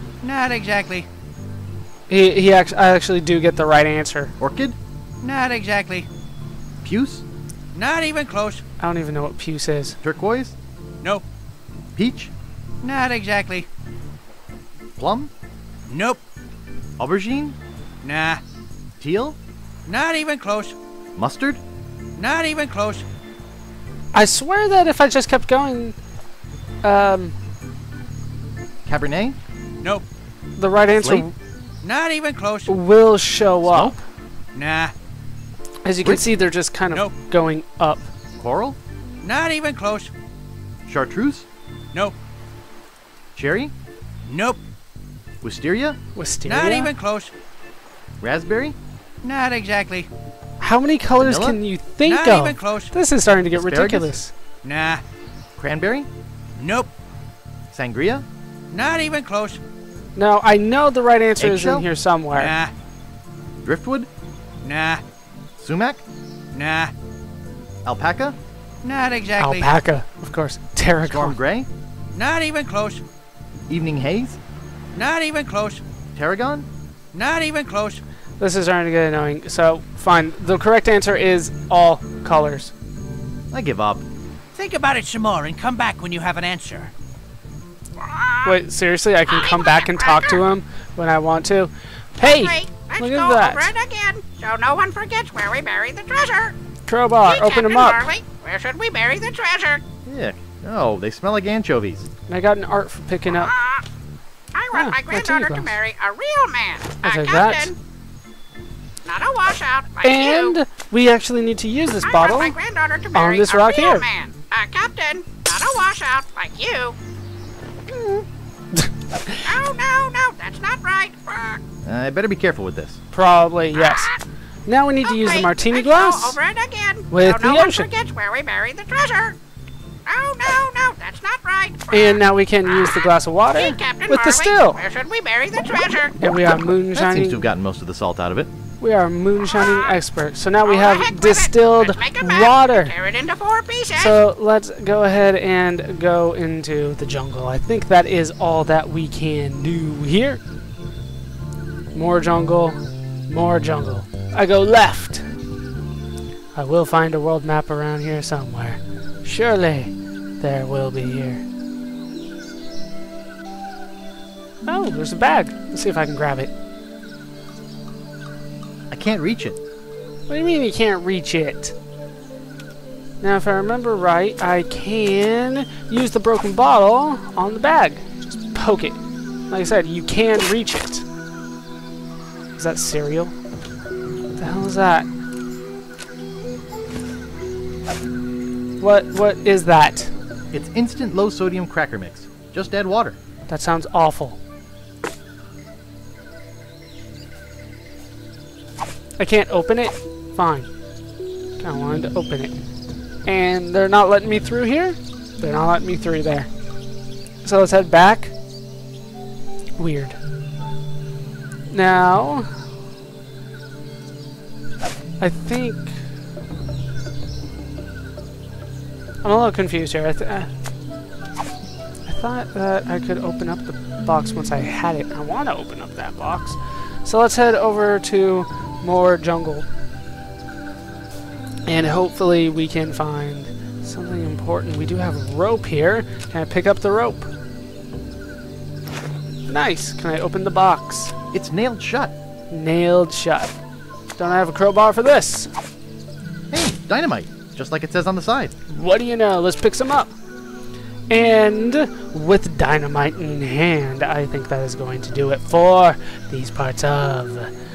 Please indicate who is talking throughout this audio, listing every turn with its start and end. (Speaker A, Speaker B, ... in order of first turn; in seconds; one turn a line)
Speaker A: 0.2-1.1
Speaker B: 2.1-4.3
Speaker C: 4.4-4.8
Speaker A: 5.2-6.1
Speaker C: 6.8-7.2
Speaker A: 7.7-8.6
Speaker B: 8.8-10.0
Speaker C: 10.0-10.6
Speaker C: 11.9-12.3
Speaker A: 12.8-13.7
Speaker C: 15.0-15.3
Speaker A: 15.9-16.2
Speaker C: 17.0-17.6
Speaker A: 18.0-18.4
Speaker C: 19.0-19.4
Speaker A: 19.9-20.8
Speaker C: 21.1-21.6
Speaker A: 22.2-23.0
Speaker B: 24.1-25.9
Speaker B: 26.8-27.4
Speaker C: 28.9-29.4
Speaker B: 30.6-31.3
Speaker C: 30.9-31.3
Speaker A: 31.8-32.8
Speaker B: 32.7-34.0
Speaker C: 33.6-34.0
Speaker A: 34.5-34.9
Speaker B: 35.8-38.1
Speaker C: 36.0-36.3
Speaker C: 38.4-38.8
Speaker A: 39.2-40.1
Speaker C: 40.9-41.5
Speaker C: 43.3-43.7
Speaker A: 44.2-44.6
Speaker C: 45.4-46.0
Speaker B: 46.1-46.9
Speaker A: 46.4-47.3
Speaker C: 48.2-48.8
Speaker A: 49.2-50.1
Speaker B: 50.6-54.3
Speaker C: 51.2-51.6
Speaker A: 52.0-52.9
Speaker C: 53.5-54.2
Speaker A: 54.6-55.0
Speaker C: 55.6-56.1
Speaker A: 56.6-56.9
Speaker C: 57.7-58.2
Speaker A: 58.7-59.6
Speaker B: 60.1-62.5
Speaker C: 61.4-61.9
Speaker A: 62.3-62.7
Speaker C: 63.6-64.1
Speaker A: 64.6-65.0
Speaker C: 65.6-66.0
Speaker A: 66.5-66.9
Speaker C: 67.8-68.4
Speaker A: 68.8-69.7
Speaker B: 69.4-71.3
Speaker C: 71.0-71.7
Speaker A: 72.1-73.0
Speaker C: 73.7-74.4
Speaker A: 74.9-75.8
Speaker C: 76.1-76.7
Speaker A: 77.1-78.0
Speaker B: 78.4-82.7
Speaker C: 83.5-84.0
Speaker A: 84.5-86.9
Speaker D: 88.0-88.5
Speaker B: 88.4-93.7
Speaker D: 89.3-90.4
Speaker D: 92.2-96.5
Speaker B: 96.9-98.1
Speaker D: 97.2-99.8
Speaker C: 100.0-102.1
Speaker B: 102.3-103.5
Speaker D: 103.3-103.8
Speaker D: 104.5-107.8
Speaker B: 104.7-105.7
Speaker B: 107.0-107.7
Speaker D: 109.0-110.6
Speaker B: 110.0-112.6
Speaker D: 112.0-117.0
Speaker B: 113.1-114.1
Speaker B: 117.9-119.5
Speaker D: 119.4-121.6
Speaker C: 121.8-123.0
Speaker B: 123.1-124.1
Speaker D: 123.8-124.2
Speaker B: 124.7-126.4
Speaker D: 125.0-129.4
Speaker B: 127.1-127.9
Speaker D: 130.1-133.0
Speaker B: 131.9-134.8
Speaker D: 133.5-136.2
Speaker B: 136.2-137.5
Speaker C: 136.9-138.5
Speaker B: 138.8-142.9
Speaker D: 139.4-140.0
Speaker D: 140.6-144.2
Speaker B: 144.0-150.4
Speaker B: 151.9-155.2
Speaker B: 156.5-161.4
Speaker B: 164.7-166.5
Speaker C: 168.9-169.6
Speaker B: 170.3-171.7
Speaker B: 173.2-179.0
Speaker B: 179.5-181.0
Speaker B: 182.6-183.3
Speaker B: 184.3-185.1
Speaker B: 188.8-190.1
Speaker C: 190.5-193.2
Speaker B: 193.5-194.4
Speaker B: 199.2-200.7
Speaker B: 201.6-202.6
Speaker B: 203.2-206.5
Speaker B: 207.4-208.3
Speaker B: 209.8-210.2
Speaker B: 211.7-212.5
Speaker B: 215.2-216.0
Speaker B: 219.2-220.5
Speaker B: 222.1-229.7
Speaker B: 231.7-237.3
Speaker B: 239.5-241.1
Speaker C: 241.3-242.1
Speaker B: 242.5-243.6
Speaker B: 244.2-245.5
Speaker C: 246.5-248.5
Speaker B: 248.7-250.1
Speaker B: 251.1-257.5